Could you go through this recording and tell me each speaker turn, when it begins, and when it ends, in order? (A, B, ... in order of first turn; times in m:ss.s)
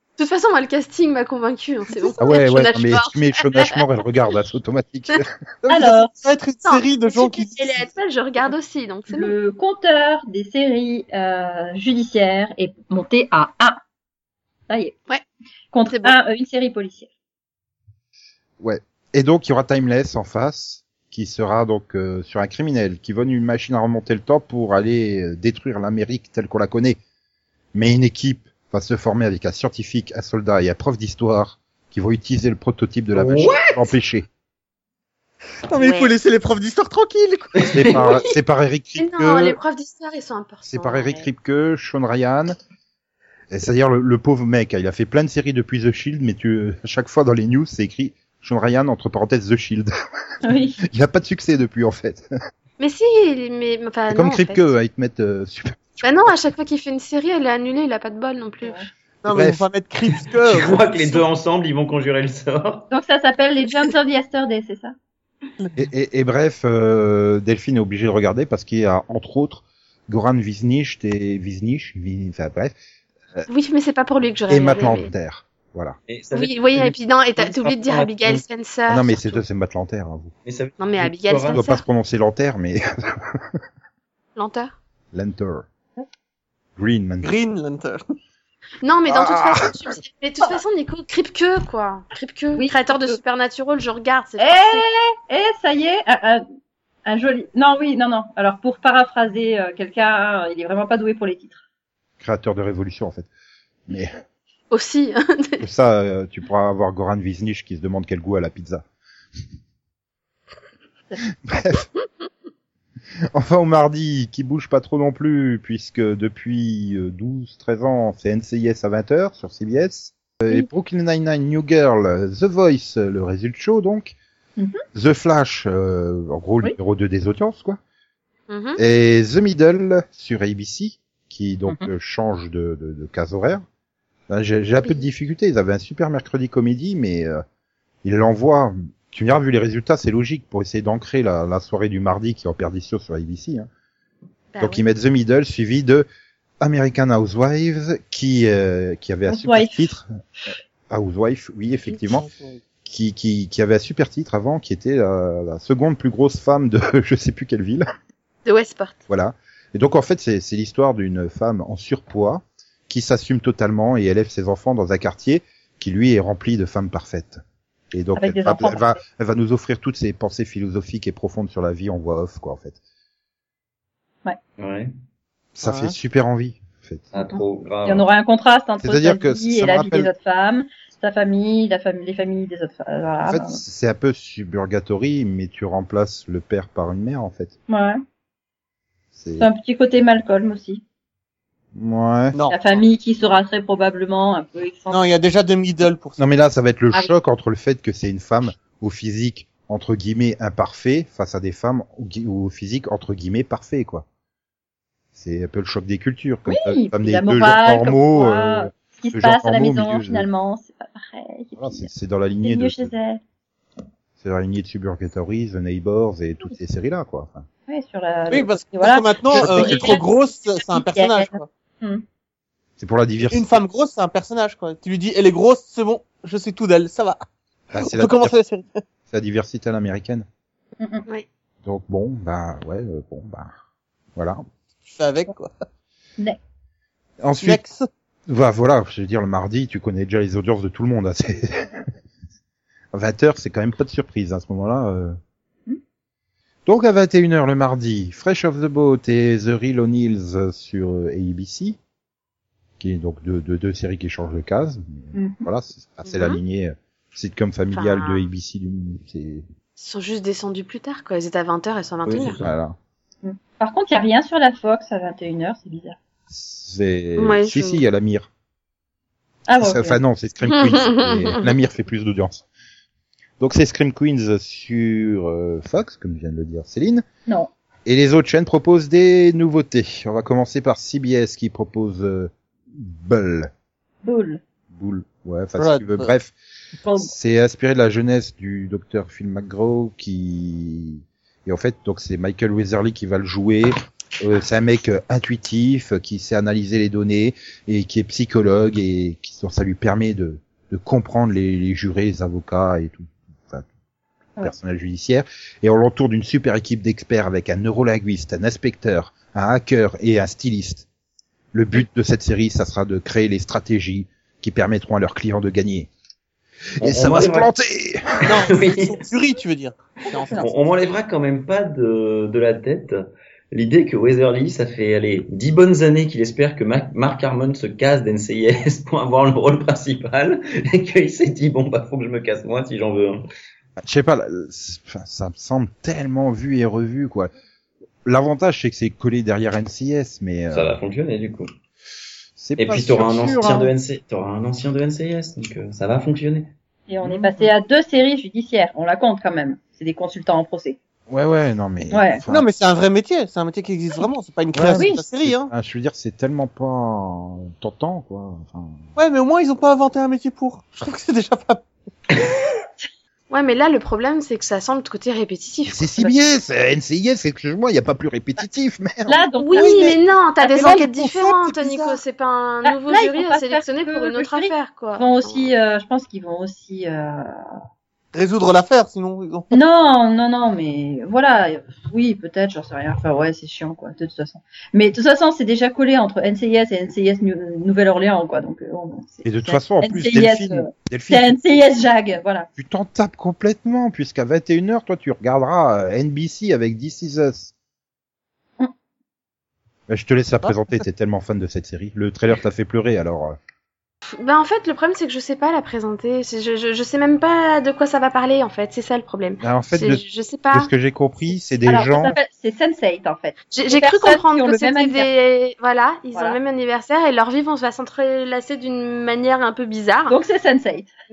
0:00.2-0:03.8 A
0:02.2-0:05.9 B
0:05.7-0:06.1 C
0:05.7-0:07.9 D
0:06.7-0:09.3 A
0:09.1-0:13.8 C
0:14.7-0:15.0 C
0:15.7-0:17.1 C
0:15.9-0:16.2 A
0:18.6-0:27.0 B
0:27.7-0:34.3 B
0:33.1-0:33.9 E
0:35.7-0:38.0 D
0:35.8-0:36.1 A
0:37.7-0:39.6 B
0:39.0-0:41.3 A
0:40.7-0:42.6 B
0:43.5-0:49.9 B
0:50.4-0:50.8 C
0:50.9-0:52.3 B
0:52.8-0:54.7 A
0:54.1-0:56.3 B
0:56.0-0:58.8 A
0:58.6-0:58.9 C
0:59.2-1:01.2 D
0:59.3-0:59.6 B
1:00.4-1:02.9 E
1:02.9-1:05.0 C
1:05.8-1:12.8 B
1:13.5-1:15.1 A
1:14.5-1:16.0 B
1:16.1-1:18.4 E
1:16.3-1:19.4 A
1:18.9-1:20.3 B
1:20.4-1:21.6 E
1:20.8-1:21.8 A
1:21.5-1:23.6 B
1:24.4-1:24.7 A
1:25.1-1:25.6 B
1:26.8-1:27.3 B
1:27.2-1:28.0 D
1:28.8-1:34.8 A
1:29.1-1:29.9 B
1:32.6-1:33.2 C
1:34.4-1:36.4 C
1:37.1-1:41.6 C
1:42.2-1:43.3 B
1:44.7-1:45.6 A
1:45.6-1:48.8 B
1:51.4-1:51.9 B
1:53.4-2:04.2 B
2:04.6-2:04.8 C
2:04.9-2:07.8 B
2:08.5-2:08.8 A
2:08.8-2:13.6 B
2:14.3-2:17.4 B
2:18.0-2:23.7 B
2:24.5-2:24.8 A
2:24.6-2:26.1 B
2:26.6-2:30.1 B
2:29.3-2:29.9 C
2:30.9-2:32.3 B
2:32.0-2:32.6 D
2:32.8-2:37.8 B
2:38.4-2:39.0 A
2:39.1-2:47.4 B
2:47.9-2:52.8 B
2:48.2-2:49.0 C
2:54.6-2:54.9 E
2:55.6-2:57.1 B
2:55.6-2:56.0 D
2:57.1-2:58.1 E
2:57.3-3:03.6 C
2:58.8-3:00.1 B
3:03.2-3:07.6 B
3:07.7-3:08.0 C
3:09.2-3:09.5 B
3:09.4-3:10.8 C
3:11.8-3:12.4 B
3:12.3-3:12.6 D
3:12.5-3:15.0 C
3:14.9-3:16.2 D
3:16.2-3:24.0 B
3:25.2-3:30.3 B
3:26.5-3:33.2 C
3:31.6-3:32.9 B
3:34.2-3:37.5 B
3:37.7-3:40.1 C
3:38.3-3:41.5 D
3:39.3-3:40.0 B
3:40.6-3:42.0 C
3:42.8-3:43.6 B
3:43.3-3:47.2 D
3:47.7-3:48.3 B
3:47.8-3:48.8 D
3:49.1-3:50.3 B
3:50.8-3:51.1 C
3:51.6-3:53.6 B
3:54.8-3:55.5 D
3:57.2-3:57.6 B
3:57.4-3:57.9 D
3:58.3-4:01.8 B
4:02.9-4:05.2 B
4:06.7-4:11.8 B
4:12.8-4:19.4 B
4:15.1-4:15.5 C
4:16.0-4:16.4 A
4:17.7-4:18.3 A
4:19.8-4:22.4 A
4:22.1-4:22.5 E
4:22.4-4:22.8 B
4:23.2-4:26.0 C
4:26.3-4:28.3 B
4:27.2-4:27.8 A
4:29.5-4:30.0 C
4:29.6-4:32.4 B
4:30.5-4:31.5 A
4:33.4-4:37.0 B
4:37.9-4:43.5 B
4:44.0-4:44.4 C
4:44.7-4:46.3 B
4:45.6-4:46.1 D
4:46.8-4:47.1 C
4:47.0-5:03.7 B
5:04.4-5:10.9 B
5:11.5-5:15.9 B
5:16.8-5:18.2 B
5:16.8-5:17.5 E
5:18.2-5:20.5 D
5:18.3-5:19.1 E
5:20.0-5:20.5 C
5:20.3-5:33.2 E
5:33.8-5:37.3 B
5:38.0-5:40.7 B
5:40.5-5:41.5 E
5:42.4-5:43.7 B
5:42.6-5:46.5 E
5:46.9-5:50.8 C
5:47.0-5:47.5 B
5:51.1-5:52.5 B
5:51.9-5:52.2 C
5:52.3-5:55.5 D
5:54.5-5:58.8 B
5:54.7-5:55.0 C
5:59.0-6:01.6 D
6:03.3-6:06.2 A
6:05.7-6:09.2 B
6:09.1-6:09.8 C
6:09.4-6:15.5 A
6:09.6-6:12.0 D
6:12.6-6:17.6 C
6:18.1-6:19.6 D
6:19.5-6:32.5 C
6:29.2-6:31.6 B
6:32.6-6:37.5 B
6:39.9-6:43.4 B
6:44.2-6:50.7 A
6:49.4-6:52.2 B
6:51.6-6:55.1 C
6:53.5-7:00.2 A
6:56.1-6:56.4 C
7:00.1-7:00.9 C